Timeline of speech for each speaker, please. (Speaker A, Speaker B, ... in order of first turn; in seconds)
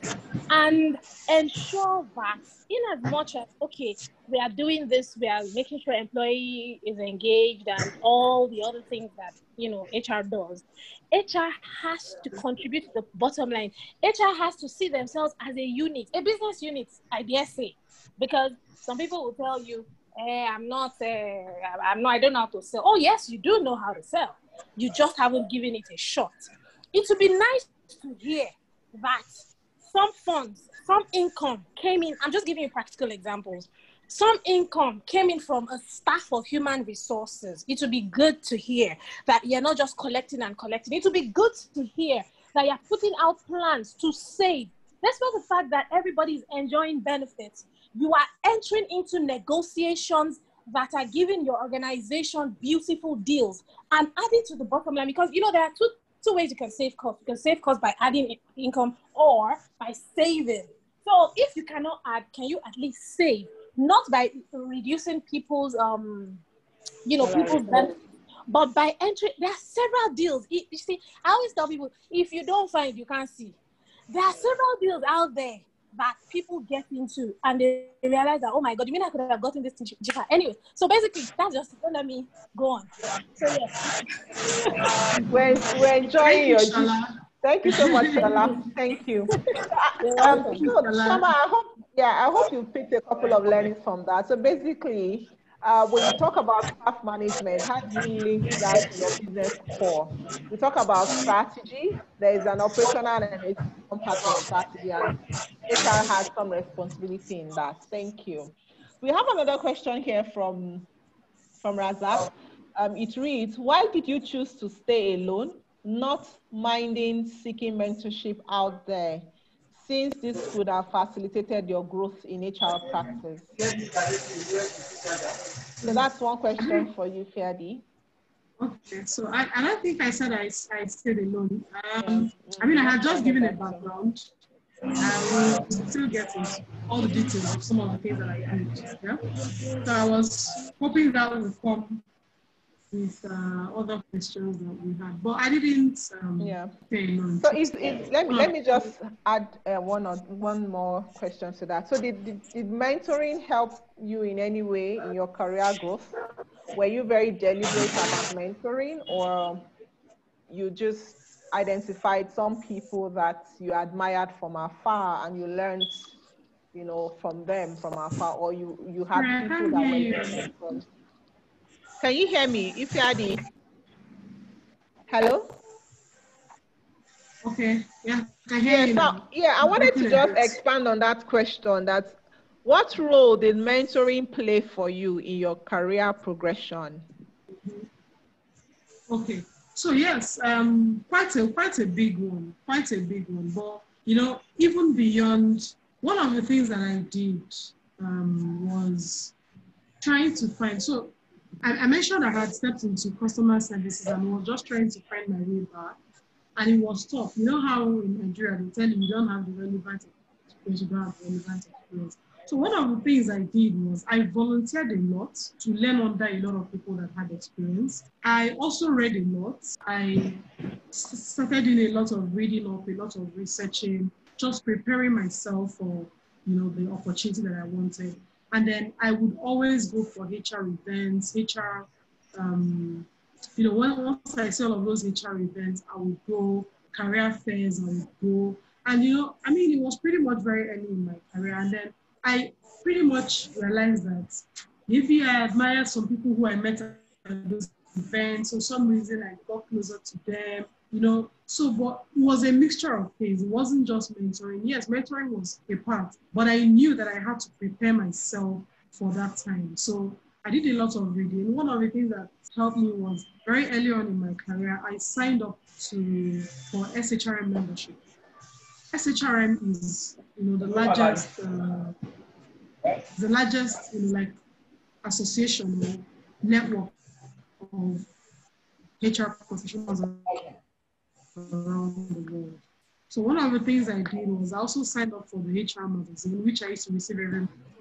Speaker A: 0.5-66.4, 67.0-67.9, 68.5-73.6, 74.1-83.7, 90.1-90.4
Speaker B: 67.2-67.9, 85.3-105.1, 105.7-110.9, 111.6-123.5, 125.8-127.8, 132.0-133.9, 146.4-146.7, 147.4-156.1, 156.7-159.7, 160.5-166.1, 166.7-170.8, 172.0-173.4, 175.1-175.5, 178.6-187.0
Speaker C: 85.0-85.5, 86.2-87.1, 87.6-88.5, 90.1-91.3, 126.6-126.9, 128.6-134.3, 135.0-139.2, 139.8-142.0, 142.9-148.5, 169.1-170.5, 177.4-180.5, 187.6-187.9, 189.1-199.3, 200.0-205.9, 206.6-268.0, 268.9-271.9, 273.1-274.4, 275.0-276.9, 277.6-278.1, 279.0-280.4, 281.3-287.5